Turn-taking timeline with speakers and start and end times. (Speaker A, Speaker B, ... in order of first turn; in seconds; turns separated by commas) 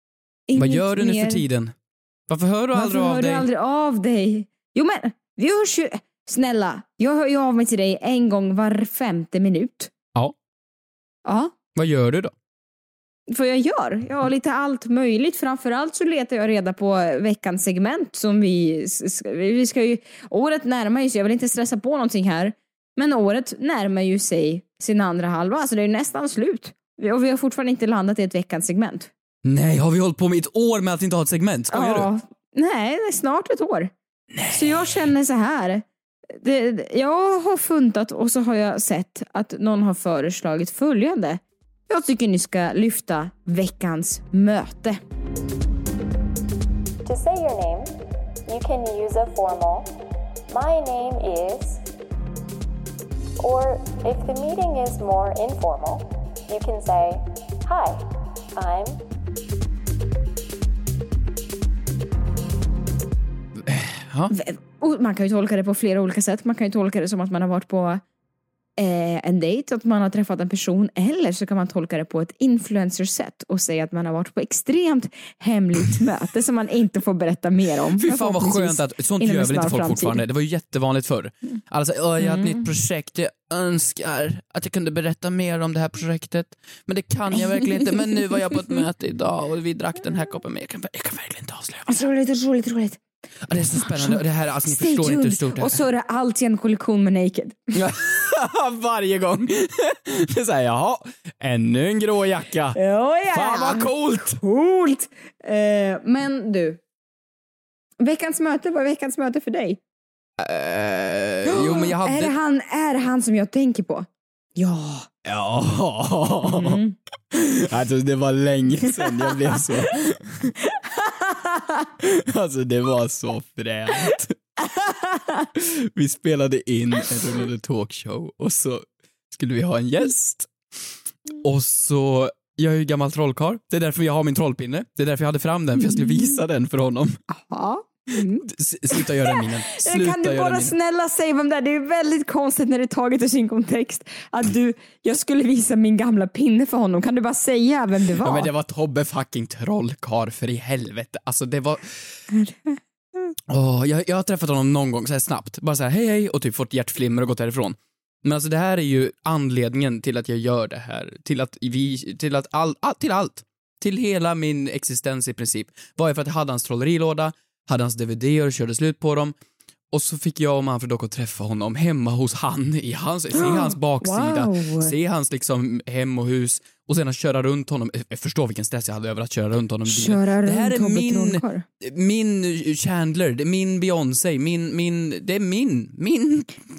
Speaker A: 0.5-1.4, Speaker B: 0.6-1.7, Speaker B: 2.3-3.5, Speaker A: 2.8-9.9, Speaker A: 11.2-11.5, Speaker B: 11.8-12.3, Speaker A: 13.3-29.1, Speaker B: 29.4-32.1, Speaker A: 31.7-33.9, Speaker B: 34.3-35.0, Speaker A: 34.5-45.0, Speaker C: 47.0-47.9, Speaker C: 48.5-49.9, Speaker C: 50.5-51.8, Speaker C: 53.4-59.0, Speaker B: 63.6-64.3, Speaker A: 64.3-68.0, Speaker A: 68.8-80.2, Speaker B: 78.0-92.1, Speaker A: 82.2-82.7, Speaker A: 91.9-93.0, Speaker B: 93.5-95.8, Speaker A: 93.8-97.7, Speaker B: 97.7-102.8, Speaker A: 102.8-106.8, Speaker B: 103.3-104.4, Speaker A: 108.0-109.8, Speaker B: 110.4-112.3, Speaker A: 111.5-115.1, Speaker B: 115.2-116.8, Speaker A: 116.4-117.0, Speaker B: 117.3-120.5, Speaker A: 119.0-119.6, Speaker A: 120.9-121.8, Speaker B: 122.0-124.4, Speaker A: 124.8-125.5, Speaker B: 125.6-130.5, Speaker B: 131.4-137.2, Speaker A: 135.8-136.3, Speaker A: 137.3-148.5, Speaker B: 138.4-140.7, Speaker B: 148.2-152.2, Speaker A: 152.3-152.8, Speaker B: 153.5-169.3, Speaker B: 169.9-186.6, Speaker A: 173.3-174.9, Speaker A: 179.9-181.6